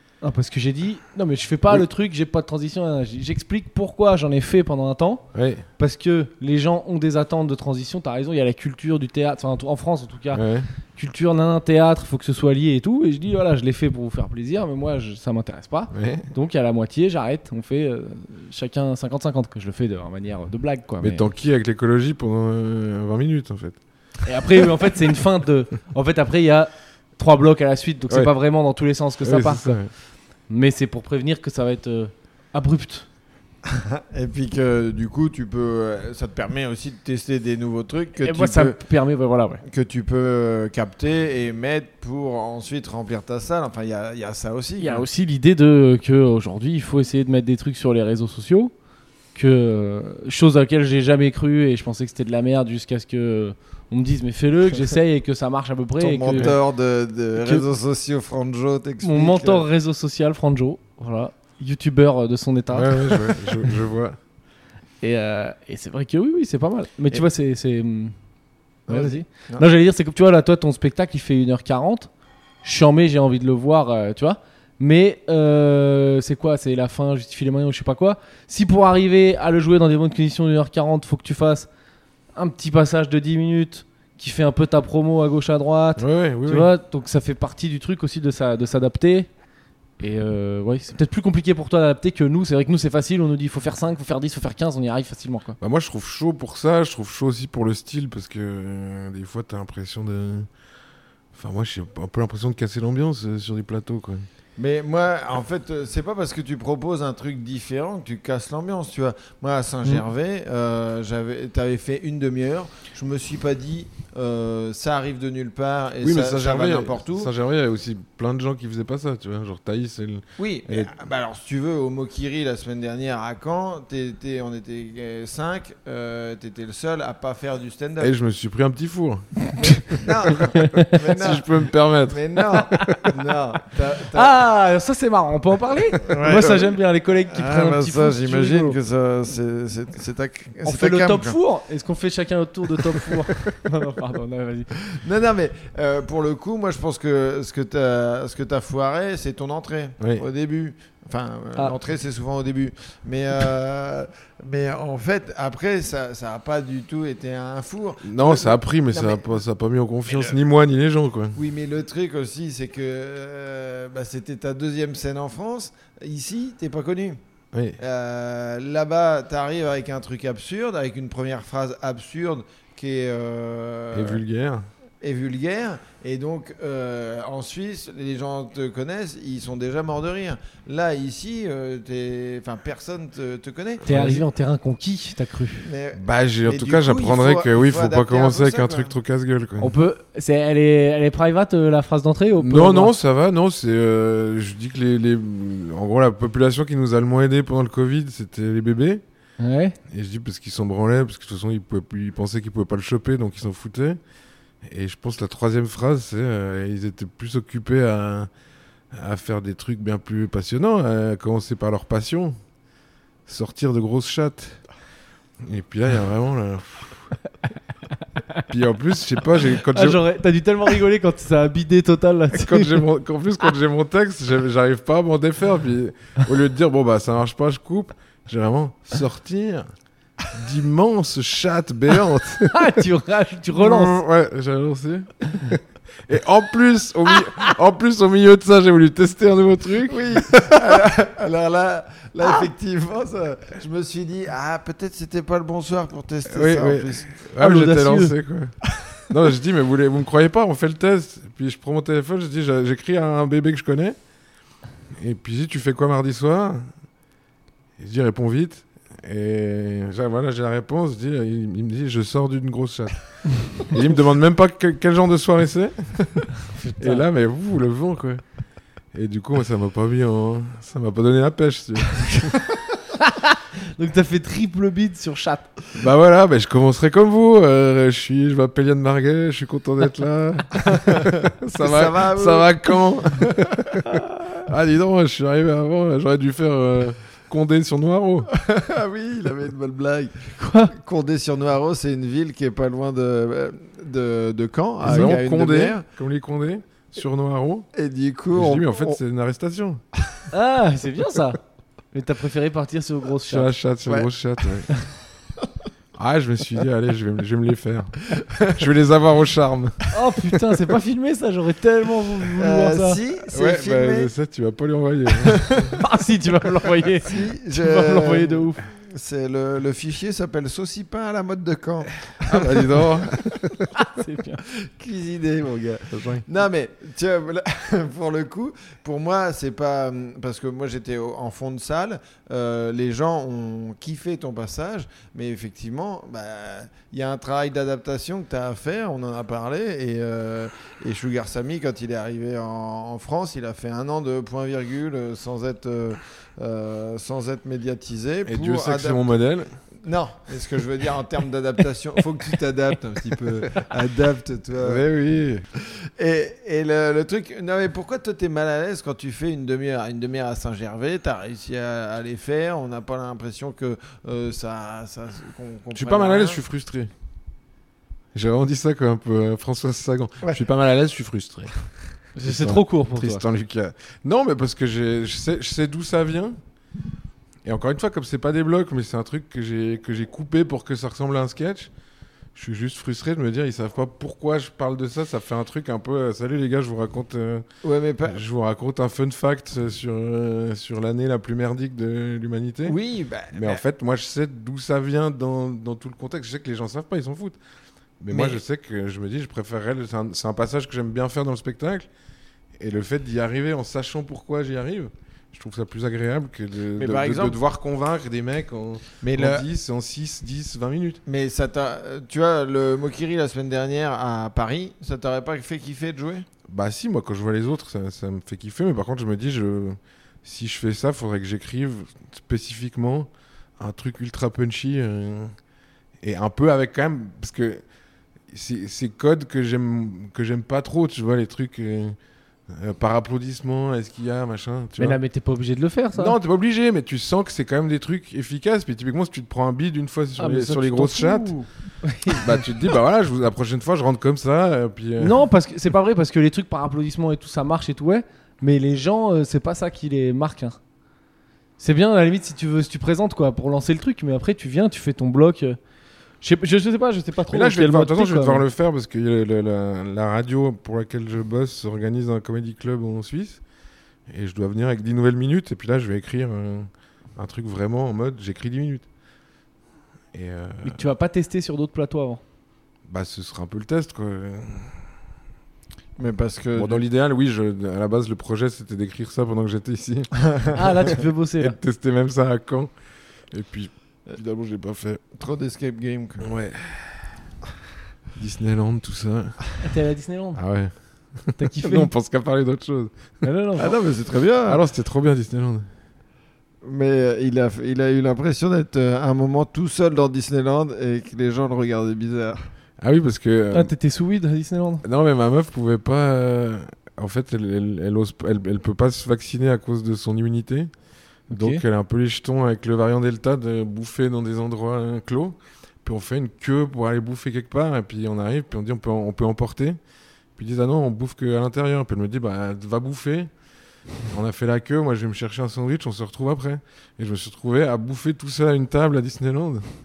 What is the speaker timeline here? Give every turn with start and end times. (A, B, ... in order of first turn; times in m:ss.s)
0:00.2-0:05.2 A
0:05.3-0:05.6 B
0:05.8-0:10.4 A
0:10.3-0:10.7 B
0:10.9-0:21.3 A
0:15.9-0:16.3 B
0:21.0-0:23.8 B
0:24.2-0:29.8 A
0:29.2-0:29.9 B
0:30.5-0:33.1 A
0:33.6-0:38.8 C
0:38.2-0:39.6 A
0:39.6-0:45.0 C
0:44.8-0:48.7 A
0:49.3-0:56.5 A
0:56.0-0:59.6 C
0:57.4-0:57.6 A
0:59.0-1:03.4 A
1:02.7-1:04.2 B
1:05.0-1:08.1 A
1:08.9-1:09.6 C
1:08.9-1:12.1 A
1:12.6-1:21.7 A
1:22.3-1:29.3 A
1:26.0-1:26.7 B
1:30.0-1:35.6 A
1:35.6-1:40.5 B
1:41.3-1:44.3 B
1:44.6-1:57.3 C
1:56.0-2:00.9 B
2:00.4-2:08.1 C
2:08.0-2:13.0 B
2:09.9-2:14.4 C
2:10.5-2:11.0 A
2:12.7-2:13.0 A
2:14.1-2:18.8 A
2:16.0-2:16.8 C
2:17.3-2:21.4 C
2:20.6-2:24.7 A
2:24.9-2:39.3 C
2:38.0-2:41.4 B
2:40.1-2:40.4 C
2:41.3-2:47.2 C
2:47.5-2:47.8 B
2:47.8-2:54.2 C
2:53.9-2:54.7 B
2:55.0-3:04.1 C
3:03.9-3:05.7 A
3:03.9-3:04.2 B
3:05.6-3:08.9 C
3:05.9-3:09.7 B
3:09.6-3:12.9 A
3:12.4-3:19.0 B
3:19.4-3:19.8 A
3:19.9-3:24.0 B
3:24.6-3:28.3 B
3:28.9-3:32.4 B
3:33.2-3:34.6 B
3:35.4-3:37.1 B
3:38.5-3:40.0 B
3:39.6-3:42.9 A
3:42.3-3:49.7 B
3:50.3-3:52.8 B
3:52.5-3:54.0 A
3:53.6-4:00.0 B
3:59.9-4:07.1 C
4:06.2-4:14.0 B
4:07.4-4:08.1 A
4:14.9-4:16.7 B
4:17.8-4:23.0 B
4:23.5-4:26.2 B
4:26.4-4:27.0 A
4:26.8-4:28.2 B
4:28.9-4:32.3 B
4:33.0-4:35.5 A
4:35.7-4:48.3 B
4:40.6-4:42.6 C
4:43.2-4:43.6 C
4:48.3-4:55.8 C
4:50.4-4:50.7 A
4:54.8-4:57.7 B
4:57.7-4:59.0 C
4:58.3-4:59.8 B
5:00.3-5:01.4 A
5:01.9-5:03.5 A
5:03.3-5:04.7 B
5:06.0-5:09.8 B
5:08.2-5:08.5 C
5:09.9-5:13.0 A
5:12.4-5:14.1 C
5:13.3-5:15.8 B
5:15.2-5:15.8 C
5:15.8-5:18.6 A
5:16.9-5:23.3 C
5:22.2-5:23.6 B
5:23.8-5:24.4 A
5:24.5-5:49.1 C
5:25.9-5:26.2 B
5:48.2-5:49.5 B
5:49.8-5:54.8 C
5:54.6-5:55.4 B
5:55.5-6:06.4 C
6:05.7-6:06.9 B
6:08.1-6:11.5 B
6:12.2-6:13.2 A
6:12.2-6:16.4 B
6:17.4-6:21.7 B
6:22.3-6:27.4 B
6:27.6-6:28.2 C
6:28.0-6:32.8 B
6:32.6-6:33.6 C
6:33.3-6:37.4 B
6:38.0-6:41.9 B
6:38.1-6:38.4 C
6:42.6-6:51.0 B
6:46.8-6:47.4 C
6:49.0-6:49.4 C
6:51.0-6:56.3 C
6:56.5-7:05.3 B
7:06.0-7:07.6 B
7:08.3-7:12.0 B
7:12.5-7:15.0 B
7:14.8-7:16.1 A
7:15.9-7:21.3 B
7:20.2-7:22.4 A
7:22.1-7:25.2 B
7:25.0-7:30.6 A
7:31.6-7:35.6 A
7:36.2-7:38.4 A
7:37.3-7:43.4 B
7:44.1-7:48.9 B
7:50.1-7:50.8 B
7:50.6-7:52.2 A
7:52.9-7:54.8 B
7:56.0-7:56.8 C
7:56.5-8:02.7 B
8:00.5-8:01.6 A
8:03.3-8:05.0 B
8:05.1-8:06.3 C
8:06.2-8:07.2 B
8:08.2-8:09.4 B
8:09.6-8:10.4 A
8:10.3-8:13.2 B
8:11.4-8:11.9 A
8:13.2-8:13.7 A
8:13.6-8:14.6 C
8:14.4-8:15.7 B
8:16.6-8:22.4 C
8:22.8-8:23.7 B
8:23.5-8:24.8 A
8:24.8-8:30.7 B
8:31.3-8:31.6 A
8:31.3-8:39.8 B
8:40.4-8:43.3 B
8:44.1-8:49.7 B